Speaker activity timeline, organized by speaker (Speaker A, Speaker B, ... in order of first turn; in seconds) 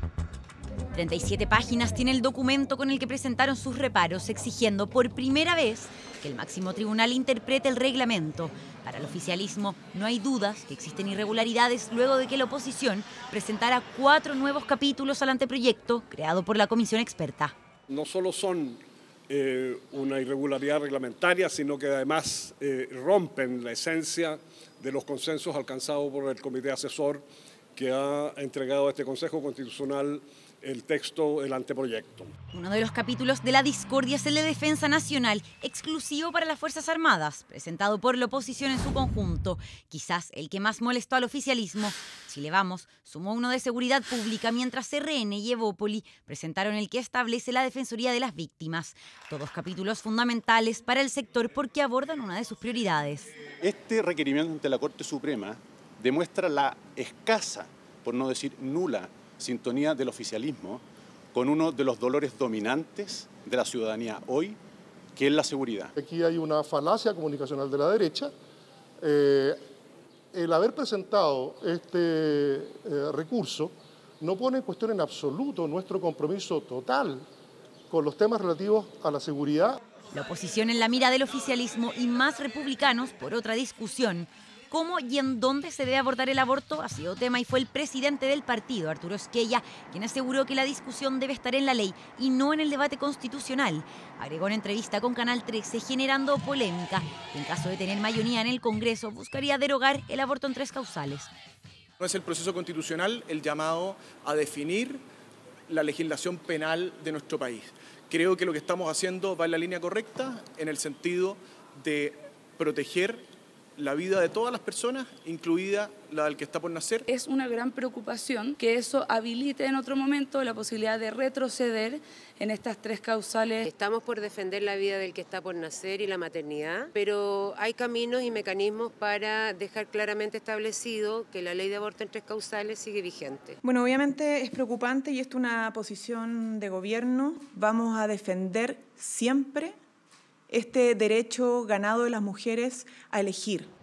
Speaker A: 0.9-17.5, 32.5-53.3, 80.1-101.3
Speaker B: 17.9-32.3
Speaker C: 53.6-60.8, 61.3-64.6, 65.2-65.9
Speaker D: 66.0-68.3, 69.0-69.6, 70.3-77.3, 77.9-79.8
Speaker E: 102.0-105.0, 105.7-113.2, 113.8-117.0
Speaker F: 117.1-123.7
Speaker G: 123.7-133.6
Speaker H: 133.7-139.8, 140.5-143.7